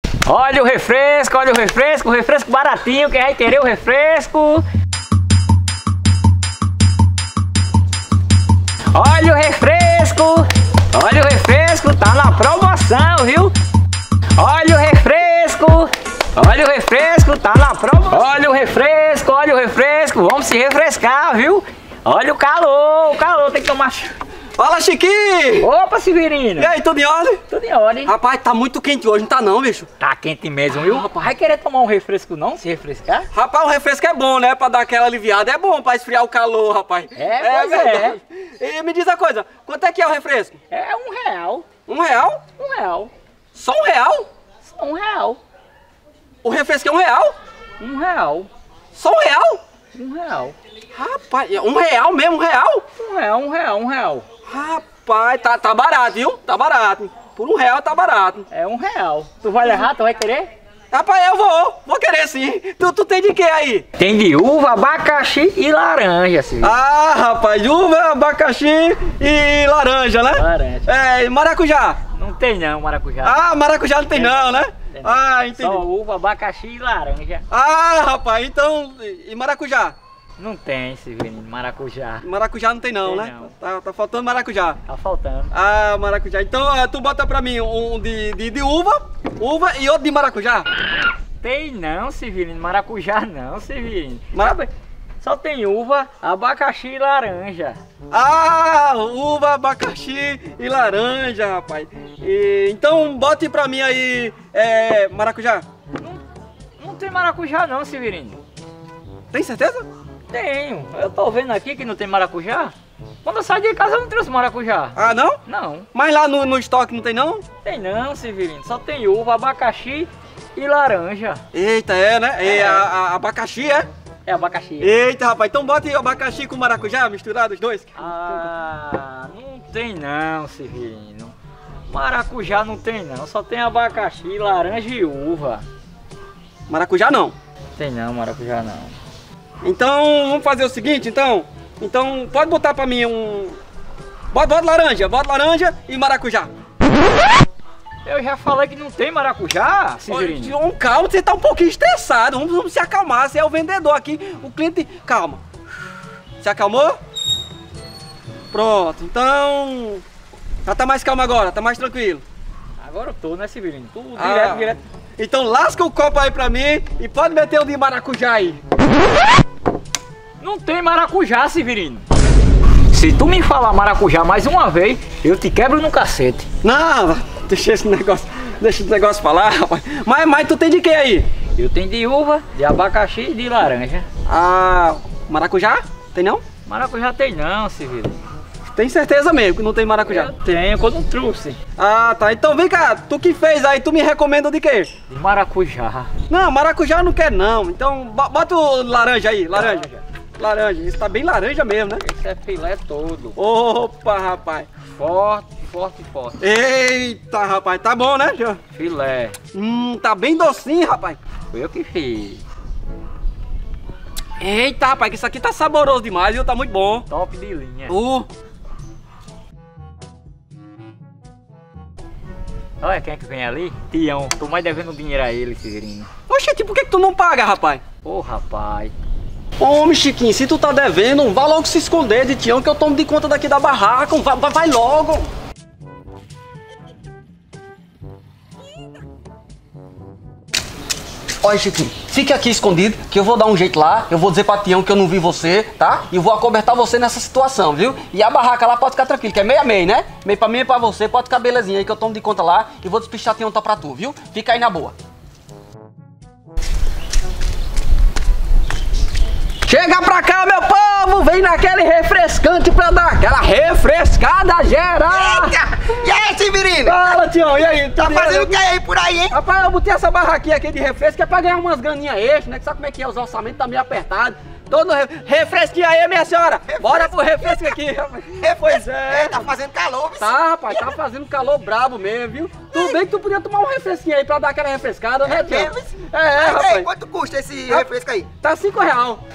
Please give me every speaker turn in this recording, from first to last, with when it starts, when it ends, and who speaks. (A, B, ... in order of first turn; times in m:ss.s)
0:00.3-0:04.6 A
0:08.9-0:13.5 A
0:14.4-0:24.1 A
0:24.6-0:25.7 B
0:25.6-0:26.7 A
0:26.6-0:27.4 B
0:27.5-0:28.1 A
0:28.0-0:29.9 B
0:30.0-0:33.3 A
0:33.3-0:40.6 B
0:37.2-0:38.2 A
0:40.7-0:41.6 A
0:41.9-0:42.4 B
0:42.6-0:43.1 A
0:43.5-0:44.3 B
0:44.6-0:45.4 A
0:46.4-0:47.3 B
0:47.8-0:48.5 A
0:48.9-0:49.6 B
0:49.9-0:50.6 A
0:50.9-0:52.8 B
0:53.0-0:54.2 A
0:54.4-0:58.4 B
0:58.5-1:00.5 A
1:00.9-1:03.8 B
1:04.0-1:06.7 A
1:06.6-1:12.0 B
1:10.3-1:10.9 A
1:12.1-1:13.4 A
1:13.2-1:15.8 B
1:14.1-1:17.4 A
1:17.5-1:20.0 B
1:20.4-1:22.2 A
1:22.2-1:24.8 B
1:23.0-1:23.5 A
1:24.9-1:25.5 A
1:25.5-1:30.7 B
1:31.4-1:34.7 A
1:35.2-1:37.8 A
1:38.1-1:45.6 B
1:46.8-1:48.4 A
1:49.3-1:49.9 B
1:50.3-1:52.7 A
1:53.2-1:54.9 A
1:54.9-1:55.4 B
1:55.5-1:55.8 A
1:55.9-1:57.4 B
1:57.6-2:01.4 A
2:01.5-2:03.9 B
2:02.4-2:02.8 A
2:04.2-2:04.9 A
2:04.8-2:08.5 B
2:08.0-2:11.3 A
2:11.9-2:15.6 A
2:16.7-2:17.3 B
2:17.8-2:18.9 A
2:19.6-2:23.6 B
2:24.3-2:26.5 B
2:28.0-2:30.5 A
2:30.1-2:35.4 B
2:36.4-2:37.0 B
2:38.5-2:40.0 B
2:40.6-2:42.2 B
2:42.8-2:44.8 A
2:44.2-2:48.6 B
2:50.4-2:52.0 A
2:52.9-2:56.4 A
2:56.6-3:01.3 B
3:01.6-3:04.0 A
3:04.3-3:06.4 B
3:06.6-3:08.2 A
3:08.7-3:10.3 B
3:10.0-3:11.6 A
3:11.8-3:14.9 B
3:15.1-3:16.1 A
3:16.3-3:19.9 B
3:19.5-3:20.0 A
3:20.4-3:22.0 B
3:22.0-3:23.4 A
3:23.4-3:24.7 B
3:24.9-3:26.4 A
3:26.4-3:28.6 B
3:28.7-3:29.3 A
3:29.5-3:31.2 B
3:31.5-3:32.4 A
3:34.4-3:37.1 B
3:37.1-3:37.9 A
3:37.9-3:38.3 B
3:42.8-3:46.1 A
3:46.3-3:47.8 B
3:48.0-3:48.9 A
3:49.6-3:55.3 B
4:01.4-4:14.9 B
4:19.6-4:25.6 B
4:25.1-4:27.0 C
4:26.8-4:28.6 B
4:28.0-4:29.3 C
4:29.3-4:39.5 B
4:36.7-4:37.8 C
4:38.4-4:40.9 C
4:40.2-4:46.9 B
4:42.7-4:43.0 C
4:45.2-4:48.3 C
4:48.4-4:49.2 B